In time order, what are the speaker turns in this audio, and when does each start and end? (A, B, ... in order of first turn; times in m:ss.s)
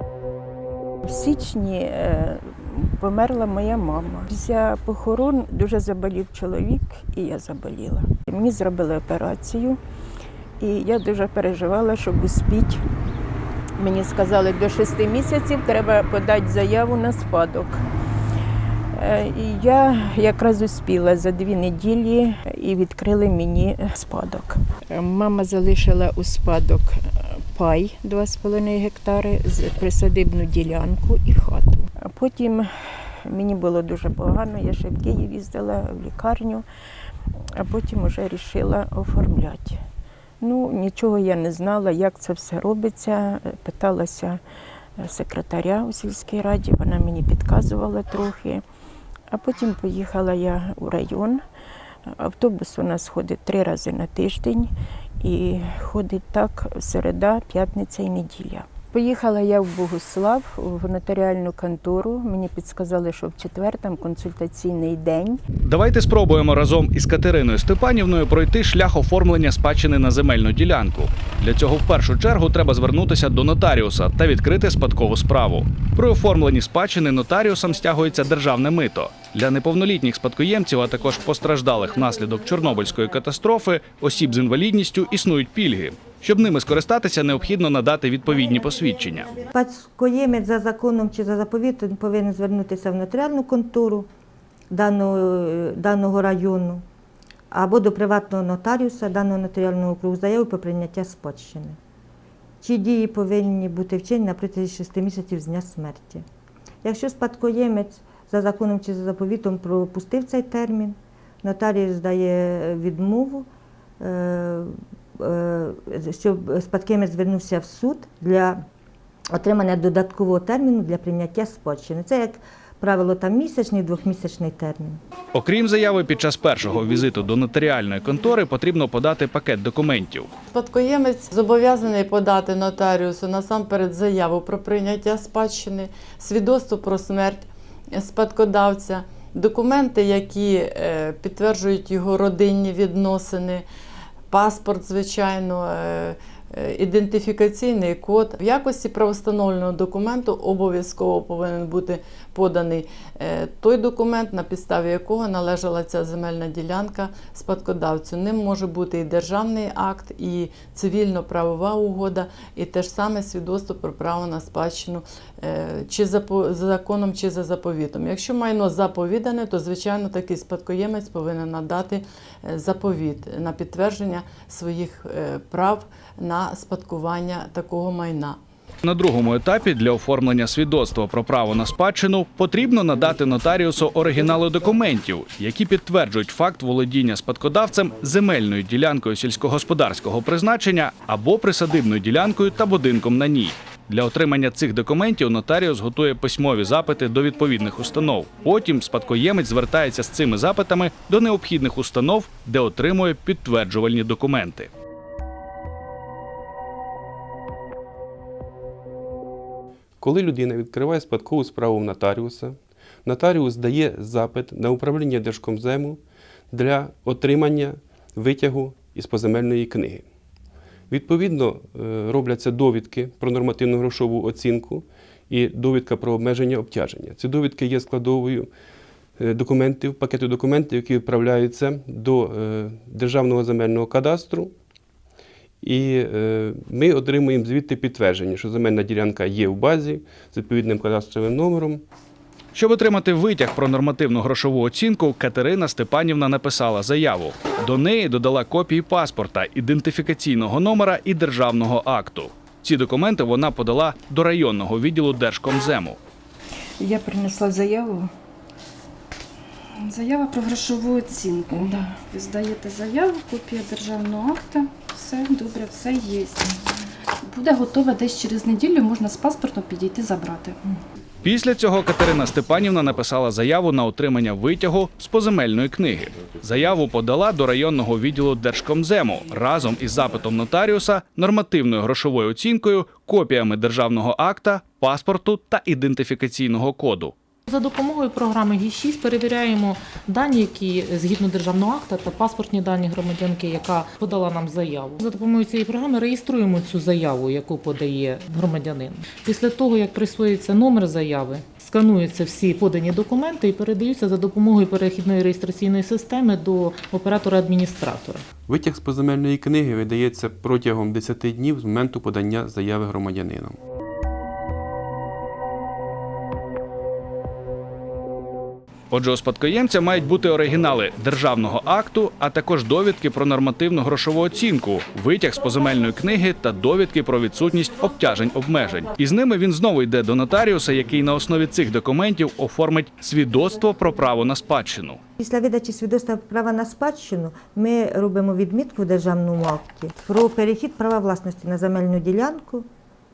0:01.1-0:09.8 A
0:10.6-0:12.7 A
0:13.8-0:17.8 A
0:19.0-0:24.2 A
0:25.0-0:26.9 A
0:27.5-0:31.8 A
0:33.4-0:35.8 A
0:38.2-0:39.3 A
0:40.5-0:44.3 A
0:45.3-0:48.1 A
0:50.0-0:51.3 A
0:52.6-0:54.7 A
0:55.4-1:05.4 A
1:05.6-1:29.4 B
1:29.5-1:34.1 C
1:34.7-1:36.8 C
1:37.5-1:41.8 C
1:42.6-1:46.2 C
1:46.8-1:53.4 C
1:54.0-1:58.6 C
1:59.4-2:05.0 C
2:05.3-2:10.3 B
2:10.5-2:23.6 D
2:24.3-2:58.4 D
2:58.8-3:24.7 B
3:30.0-3:40.1 E
3:40.9-3:48.5 E
3:49.2-3:54.5 E
3:55.6-4:01.8 E
4:02.5-4:16.0 B
4:16.8-4:18.1 A
4:19.8-4:26.6 F
4:27.2-4:30.6 F
4:31.2-4:47.1 B
4:47.5-5:08.2 G
5:08.5-5:13.6 E
5:18.9-5:35.0 B
5:35.2-5:42.6 C